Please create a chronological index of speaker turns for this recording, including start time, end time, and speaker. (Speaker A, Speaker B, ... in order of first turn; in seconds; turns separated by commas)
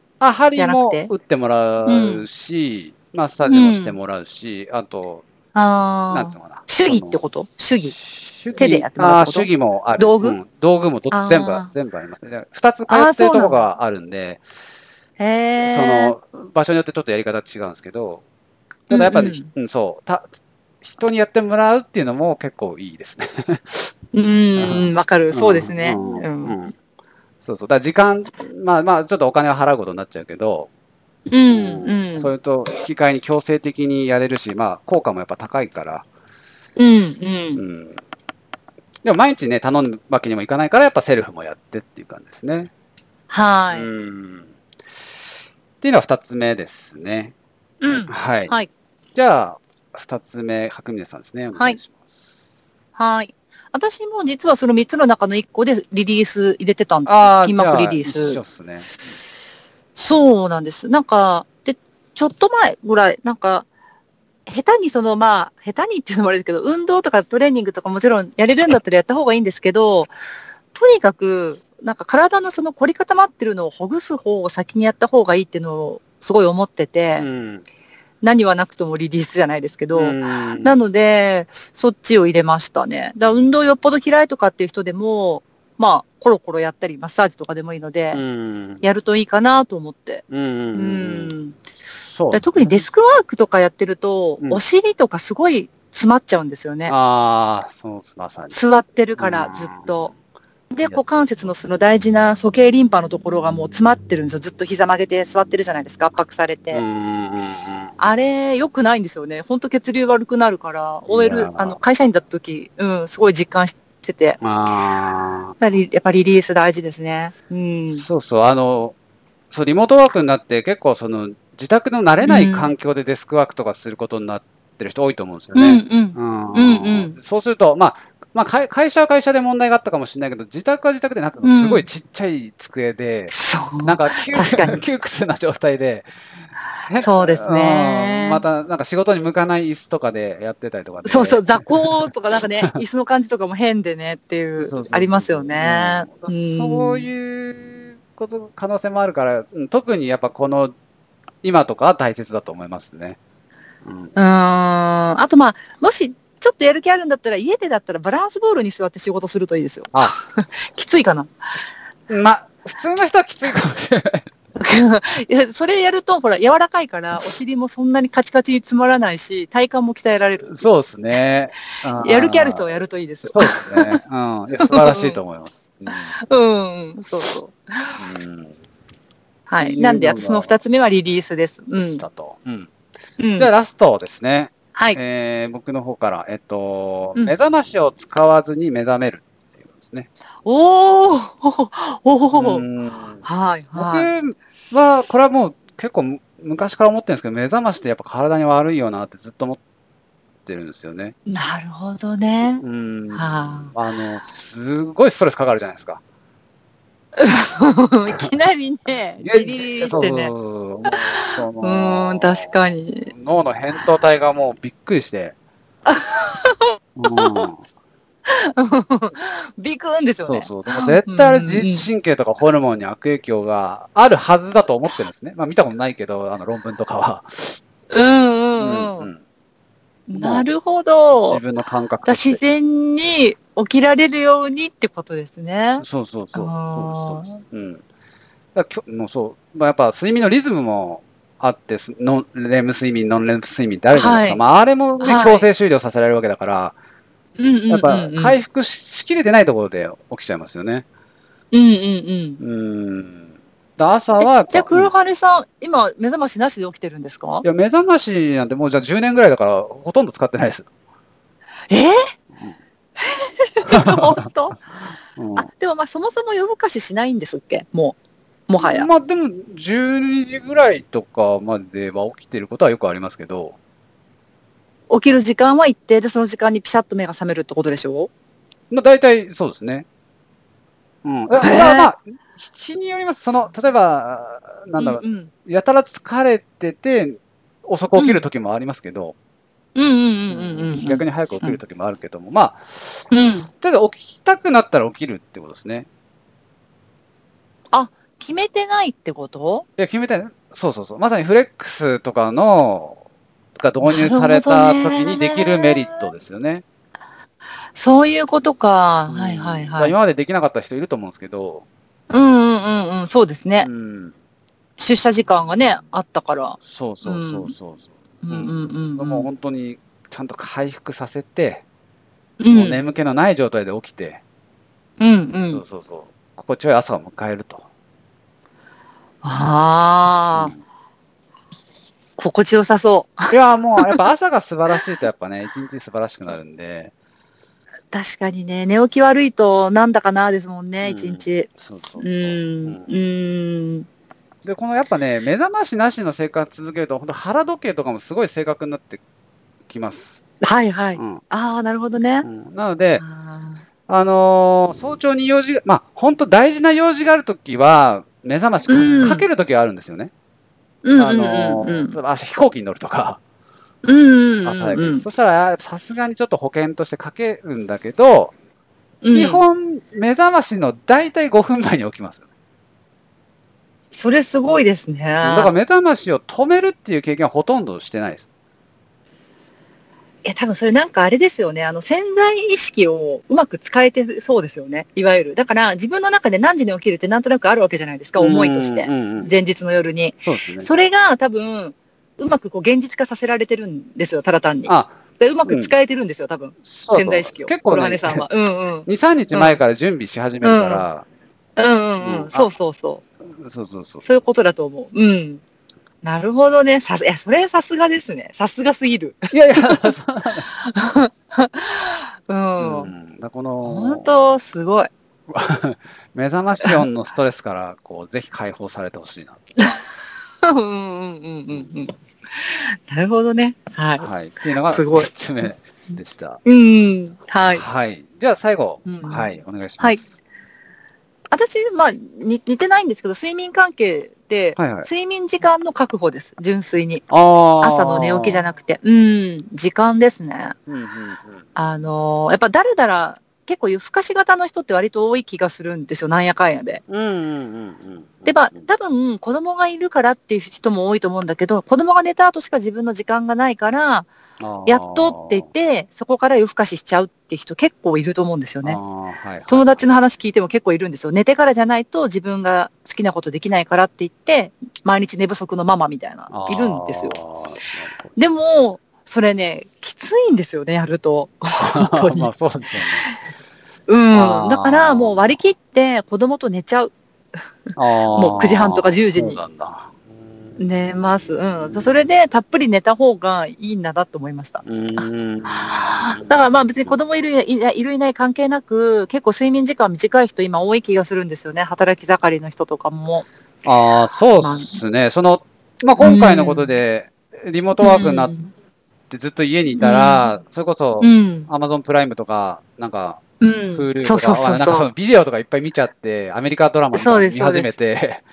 Speaker A: 0.2-5.2, Speaker B: 0.6-1.1, Speaker B: 1.9-2.2, Speaker B: 3.5-4.0, Speaker B: 5.5-8.0, Speaker A: 6.1-7.2, Speaker A: 7.8-14.4, Speaker B: 8.5-10.4, Speaker B: 11.1-11.7, Speaker B: 12.9-13.6, Speaker B: 15.2-16.1, Speaker A: 15.6-18.2, Speaker A: 18.9-20.2, Speaker B: 18.9-19.5, Speaker A: 20.8-23.9, Speaker B: 24.1-26.5, Speaker A: 24.6-26.7, Speaker A: 27.4-30.7, Speaker B: 31.3-32.3, Speaker A: 31.5-36.0, Speaker B: 36.8-37.6, Speaker A: 37.5-38.0, Speaker A: 39.0-42.7, Speaker B: 43.3-43.9, Speaker A: 43.7-45.2, Speaker A: 45.8-47.3, Speaker B: 47.8-48.7, Speaker A: 48.1-48.5, Speaker A: 49.1-52.4, Speaker B: 53.0-58.4, Speaker A: 57.0-58.9, Speaker B: 59.9-63.7, Speaker B: 64.5-70.1, Speaker B: 70.7-77.3, Speaker A: 77.2-77.6, Speaker B: 78.2-88.2, Speaker A: 79.9-80.7, Speaker A: 88.1-88.8, Speaker B: 88.8-91.6, Speaker A: 90.3-91.3, Speaker A: 91.9-92.8, Speaker B: 92.3-96.9, Speaker A: 96.9-98.6, Speaker B: 98.5-100.1, Speaker A: 99.2-100.0, Speaker B: 100.7-106.8, Speaker A: 100.8-101.5, Speaker A: 106.7-107.9, Speaker B: 108.0-114.4, Speaker A: 111.1-111.8, Speaker A: 114.4-115.5, Speaker B: 115.6-118.0, Speaker A: 117.8-118.9, Speaker A: 119.5-136.1, Speaker B: 122.2-122.7, Speaker B: 125.5-127.2, Speaker B: 131.4-131.8, Speaker B: 133.3-134.8, Speaker A: 136.8-142.8, Speaker B: 137.0-138.4, Speaker B: 141.0-147.1, Speaker A: 144.6-150.7, Speaker A: 151.4-153.2, Speaker A: 153.8-154.1, Speaker B: 154.1-161.3, Speaker A: 159.9-160.6, Speaker A: 162.1-164.3, Speaker B: 164.6-170.7, Speaker A: 170.4-172.7, Speaker B: 172.0-174.0, Speaker A: 173.2-176.1, Speaker B: 174.6-175.2, Speaker B: 176.2-178.0, Speaker A: 178.0-178.5, Speaker B: 179.5-182.0, Speaker A: 179.6-180.6, Speaker A: 181.8-182.7, Speaker B: 183.2-183.5, Speaker A: 183.4-190.1, Speaker B: 190.4-192.6, Speaker A: 192.3-199.6, Speaker B: 193.2-194.1, Speaker A: 200.4-201.1, Speaker B: 201.3-203.7, Speaker A: 202.6-206.0, Speaker B: 207.2-210.3, Speaker A: 209.2-212.5, Speaker B: 210.9-213.1, Speaker A: 213.1-215.3, Speaker B: 215.8-217.5, Speaker A: 216.9-217.6, Speaker B: 218.3-221.8, Speaker A: 220.2-227.6, Speaker B: 227.9-229.1, Speaker A: 228.6-229.2, Speaker B: 230.1-231.4, Speaker A: 230.2-230.5, Speaker A: 231.2-232.4, Speaker B: 232.0-237.4, Speaker A: 235.8-237.8, Speaker A: 238.5-246.7, Speaker B: 243.9-244.4, Speaker B: 245.0-245.5, Speaker B: 247.4-248.4, Speaker A: 247.7-250.8, Speaker B: 251.5-252.4, Speaker A: 252.4-254.9, Speaker B: 254.2-257.4, Speaker A: 257.4-260.7, Speaker B: 261.7-262.0, Speaker B: 263.0-264.6, Speaker A: 263.7-264.2, Speaker A: 265.1-265.5, Speaker B: 265.4-267.9, Speaker B: 268.5-268.9, Speaker A: 268.6-273.6, Speaker B: 274.9-278.1, Speaker A: 278.7-279.9, Speaker A: 281.0-289.1, Speaker B: 281.4-281.9, Speaker B: 284.8-285.3, Speaker B: 287.9-288.2, Speaker B: 289.7-291.6, Speaker A: 290.3-295.9, Speaker B: 293.1-293.5, Speaker B: 297.7-299.6, Speaker A: 299.8-303.0, Speaker A: 303.6-306.6, Speaker B: 303.8-306.1, Speaker B: 307.7-309.9, Speaker A: 309.1-311.6, Speaker B: 312.1-313.7, Speaker A: 313.6-314.1, Speaker B: 314.8-317.5, Speaker A: 316.6-321.6, Speaker B: 318.2-319.3, Speaker B: 322.4-322.8, Speaker A: 322.5-324.2, Speaker B: 325.0-325.6, Speaker A: 325.5-327.6, Speaker B: 329.2-330.5, Speaker B: 332.2-334.0, Speaker A: 333.3-336.9, Speaker B: 337.9-343.9, Speaker A: 340.8-342.9, Speaker A: 344.4-349.0, Speaker A: 349.7-350.2, Speaker B: 350.4-352.3, Speaker A: 351.0-351.2, Speaker A: 352.2-353.0, Speaker B: 353.0-353.6, Speaker A: 353.9-360.1, Speaker B: 358.7-359.3, Speaker B: 360.8-361.9, Speaker A: 360.9-363.2, Speaker B: 363.8-365.0, Speaker A: 364.4-368.3, Speaker B: 369.0-369.4, Speaker A: 369.1-372.2, Speaker B: 373.9-375.5, Speaker A: 375.2-378.3, Speaker B: 380.2-399.6, Speaker A: 388.2-389.3, Speaker A: 390.2-390.7, Speaker A: 394.7-395.7, Speaker A: 396.6-398.3, Speaker A: 398.9-401.1, Speaker B: 400.4-400.8, Speaker B: 401.6-403.0, Speaker A: 402.0-402.5, Speaker A: 403.3-404.0, Speaker B: 404.0-405.4, Speaker B: 406.0-409.9, Speaker A: 409.3-410.5, Speaker B: 410.5-412.9, Speaker A: 412.6-414.1, Speaker B: 413.6-414.9, Speaker A: 415.3-419.4, Speaker B: 419.6-419.8, Speaker B: 420.4-424.1, Speaker A: 424.0-426.4, Speaker B: 424.6-425.1, Speaker B: 426.4-427.6, Speaker A: 427.5-430.2, Speaker B: 428.8-429.3, Speaker B: 431.3-437.0, Speaker A: 434.6-434.9, Speaker A: 437.1-438.4, Speaker B: 437.6-440.6, Speaker A: 440.7-441.4, Speaker B: 441.6-446.8, Speaker A: 446.9-448.6, Speaker B: 448.2-454.1, Speaker A: 454.4-455.5, Speaker B: 454.6-458.8, Speaker A: 458.6-459.8, Speaker B: 459.5-467.2, Speaker A: 466.3-468.1, Speaker B: 468.1-472.3, Speaker A: 471.6-473.1, Speaker B: 472.8-473.2, Speaker B: 473.9-476.9, Speaker A: 474.1-475.3, Speaker A: 477.8-479.9, Speaker B: 478.1-479.4, Speaker B: 480.6-485.1, Speaker A: 481.6-481.9, Speaker A: 484.6-486.9, Speaker B: 485.7-493.2, Speaker A: 493.6-498.3, Speaker B: 494.4-494.8, Speaker B: 496.0-496.7, Speaker B: 497.8-498.5, Speaker A: 499.1-503.2, Speaker B: 499.8-500.3, Speaker B: 501.0-501.5, Speaker B: 503.4-504.9, Speaker A: 503.7-508.2, Speaker B: 506.9-507.7